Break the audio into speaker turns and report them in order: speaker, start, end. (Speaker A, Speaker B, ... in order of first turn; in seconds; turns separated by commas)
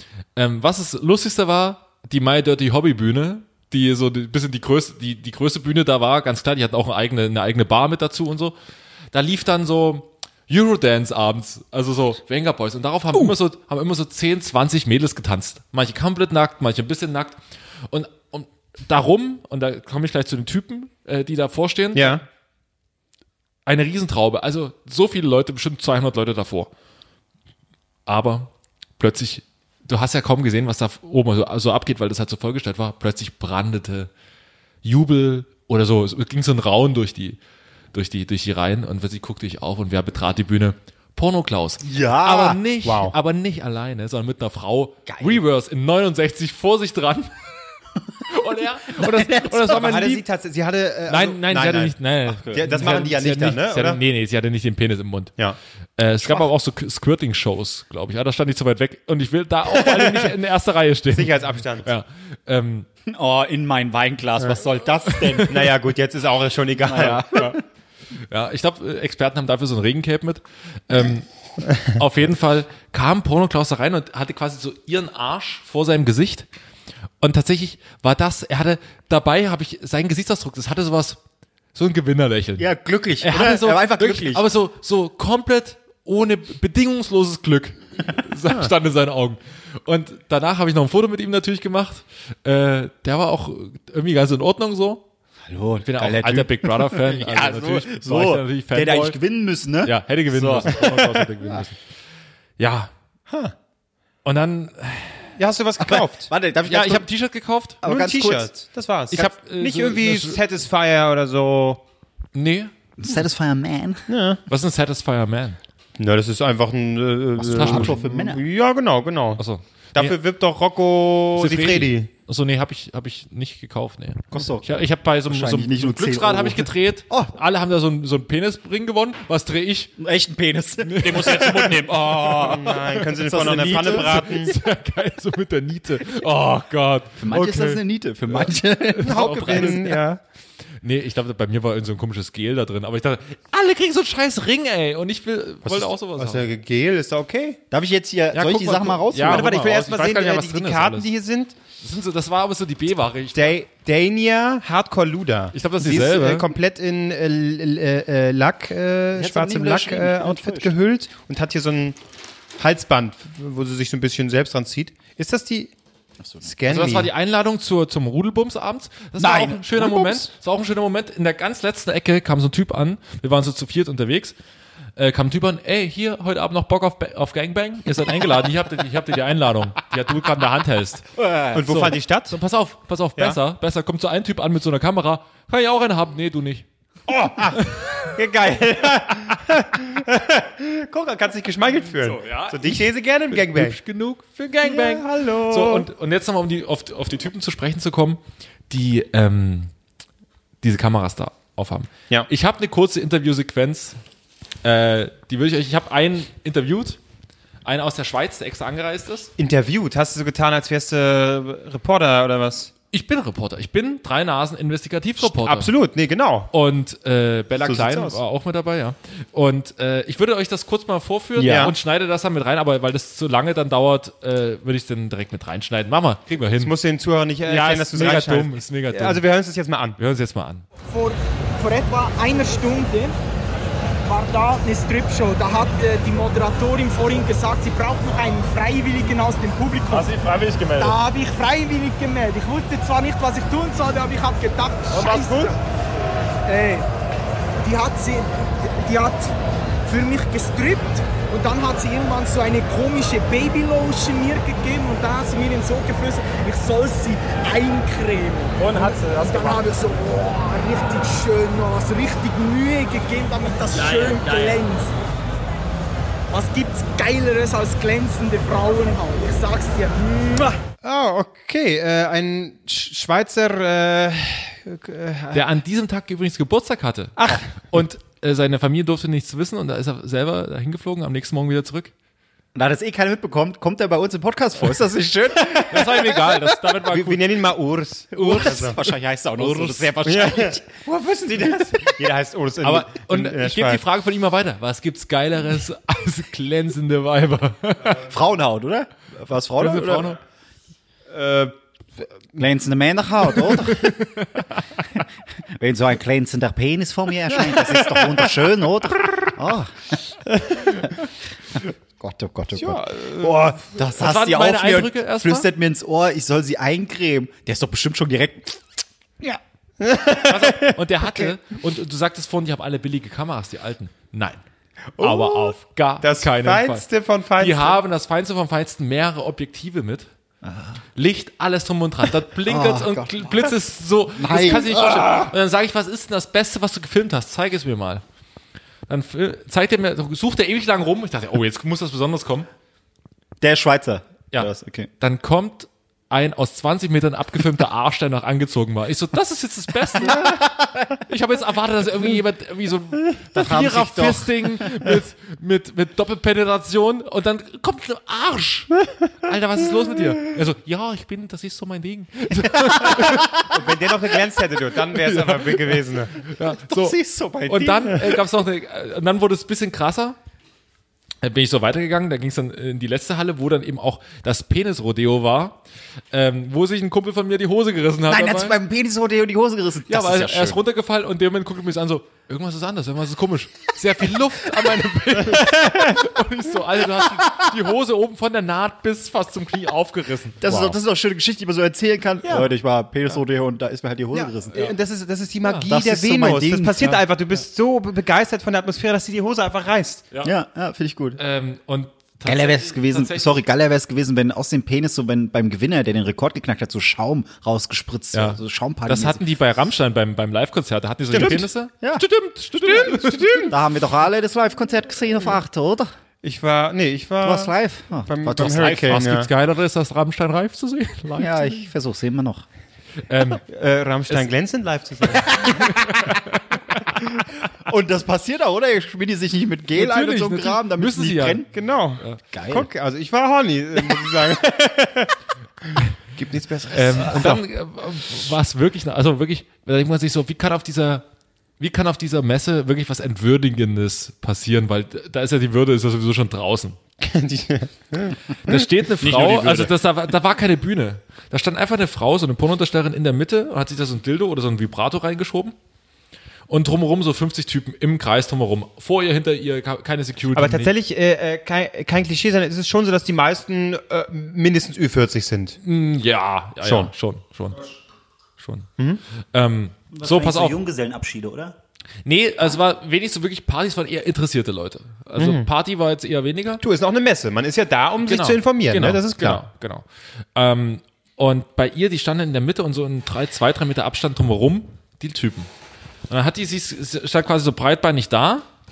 Speaker A: 0.3-8.5, Speaker A: 9.1-22.2, Speaker B: 21.9-22.2, Speaker A: 23.6-26.7, Speaker A: 28.1-34.1, Speaker A: 34.8-37.4, Speaker A: 37.9-47.4, Speaker C: 41.8-42.6, Speaker B: 42.8-43.1, Speaker C: 45.1-45.4, Speaker A: 48.3-50.2, Speaker C: 48.9-49.9, Speaker B: 49.7-54.0, Speaker A: 51.1-55.3, Speaker C: 52.4-53.0, Speaker A: 56.0-62.9, Speaker B: 59.7-60.3, Speaker B: 61.1-61.9, Speaker C: 63.1-65.7, Speaker A: 65.1-65.5, Speaker B: 65.5-67.5, Speaker C: 66.8-67.6, Speaker A: 67.3-67.6, Speaker A: 68.3-76.5, Speaker A: 77.2-81.2, Speaker A: 81.7-82.7, Speaker C: 82.6-84.5, Speaker A: 83.2-95.0, Speaker C: 95.5-100.8, Speaker A: 95.8-99.2, Speaker A: 99.8-101.8, Speaker B: 100.7-101.2, Speaker A: 102.6-102.9, Speaker B: 103.3-103.5, Speaker A: 104.2-105.3, Speaker B: 105.4-106.3, Speaker C: 105.8-107.1, Speaker A: 106.7-107.8, Speaker C: 107.8-108.5, Speaker B: 107.8-111.8, Speaker A: 109.1-110.4, Speaker A: 112.3-112.7, Speaker C: 113.0-114.0, Speaker B: 114.1-114.4, Speaker A: 114.5-115.6, Speaker B: 116.0-119.4, Speaker C: 117.4-118.4, Speaker A: 117.5-117.9, Speaker A: 119.4-120.2, Speaker B: 119.9-122.1, Speaker A: 121.4-129.9, Speaker C: 124.3-127.3, Speaker C: 130.0-132.6, Speaker A: 130.8-137.8, Speaker B: 131.2-134.5, Speaker C: 133.2-134.2, Speaker C: 137.2-139.9, Speaker A: 138.3-140.0, Speaker B: 139.0-140.2, Speaker A: 140.8-146.4, Speaker B: 145.7-147.6, Speaker C: 147.7-149.5, Speaker A: 148.3-151.1, Speaker B: 149.2-151.5, Speaker A: 151.8-153.6, Speaker B: 153.3-162.0, Speaker A: 155.5-156.4, Speaker C: 159.2-160.7, Speaker B: 162.6-165.7, Speaker B: 166.4-167.1, Speaker A: 166.7-174.3, Speaker C: 169.2-170.3, Speaker A: 174.9-181.1, Speaker C: 181.1-181.7, Speaker B: 181.5-182.3, Speaker A: 181.7-186.7, Speaker B: 187.1-193.8, Speaker A: 192.0-192.8, Speaker A: 193.3-199.7, Speaker B: 194.6-195.9, Speaker A: 200.6-204.0, Speaker A: 204.6-207.0, Speaker A: 207.6-209.3, Speaker B: 209.4-212.7, Speaker A: 212.9-215.7, Speaker B: 215.2-216.5, Speaker A: 216.5-226.7, Speaker B: 217.6-218.2, Speaker C: 221.4-221.7, Speaker B: 221.4-221.7, Speaker B: 226.6-230.0, Speaker A: 227.5-229.2, Speaker A: 230.0-230.6, Speaker D: 230.9-233.2, Speaker D: 234.0-240.2, Speaker E: 239.9-240.9, Speaker D: 240.8-245.6, Speaker B: 244.9-245.3, Speaker E: 245.0-245.4, Speaker D: 246.4-246.9, Speaker D: 247.6-249.3, Speaker D: 249.8-264.9, Speaker E: 258.6-259.6, Speaker E: 263.8-264.6, Speaker D: 266.3-270.6, Speaker B: 270.8-275.4, Speaker A: 275.3-281.9, Speaker B: 277.2-277.4, Speaker C: 282.5-286.1, Speaker A: 285.7-287.2, Speaker B: 286.9-288.8, Speaker C: 288.1-291.9, Speaker A: 288.1-288.8, Speaker A: 289.4-289.9, Speaker B: 290.0-293.8, Speaker A: 292.6-298.0, Speaker C: 298.0-300.2, Speaker A: 299.6-300.2, Speaker B: 301.1-301.5, Speaker C: 302.4-304.0, Speaker A: 303.7-304.4, Speaker C: 304.9-310.2, Speaker B: 307.4-308.2, Speaker C: 311.5-319.4, Speaker B: 312.6-313.6, Speaker A: 313.9-315.5, Speaker B: 319.8-321.2, Speaker A: 320.2-324.4, Speaker A: 325.0-326.8, Speaker B: 325.0-325.5, Speaker B: 326.0-327.8, Speaker A: 327.4-330.1, Speaker C: 330.4-330.8, Speaker A: 330.9-338.0, Speaker C: 332.4-333.5, Speaker C: 334.1-335.3, Speaker A: 338.9-342.5, Speaker C: 343.4-344.9, Speaker A: 344.3-363.4, Speaker C: 350.0-350.7, Speaker C: 353.3-355.0, Speaker C: 362.5-363.5, Speaker B: 363.4-366.1, Speaker A: 364.9-370.2, Speaker C: 366.4-368.2, Speaker A: 371.2-375.6, Speaker A: 376.1-378.6, Speaker C: 378.1-380.6, Speaker A: 379.9-390.8, Speaker C: 387.0-387.4, Speaker C: 390.4-394.7, Speaker B: 394.1-400.1, Speaker A: 395.4-395.7, Speaker C: 395.7-397.0, Speaker C: 400.2-401.2, Speaker A: 401.2-403.4, Speaker C: 402.2-409.2, Speaker A: 408.1-413.5, Speaker C: 411.1-412.0, Speaker C: 412.6-415.9, Speaker B: 412.8-413.5, Speaker B: 416.2-417.5, Speaker C: 417.2-419.0, Speaker B: 418.1-419.3, Speaker A: 418.4-421.6, Speaker C: 421.1-422.4, Speaker A: 423.1-423.4, Speaker B: 423.5-425.4, Speaker C: 425.4-425.7, Speaker A: 425.4-426.6, Speaker C: 427.6-431.5, Speaker A: 429.7-431.4, Speaker B: 431.5-435.1, Speaker C: 432.3-432.7, Speaker B: 435.7-437.4, Speaker A: 436.7-441.0, Speaker A: 441.6-446.8, Speaker B: 447.0-448.5, Speaker A: 448.4-455.5, Speaker C: 449.0-449.7, Speaker A: 456.5-460.7, Speaker B: 460.3-465.6, Speaker A: 465.6-467.6, Speaker B: 466.6-466.9, Speaker A: 468.4-468.7, Speaker A: 469.3-470.6, Speaker C: 469.9-471.6, Speaker A: 472.0-476.6, Speaker B: 475.1-475.5, Speaker B: 476.6-479.4, Speaker A: 478.0-485.5, Speaker A: 486.1-488.5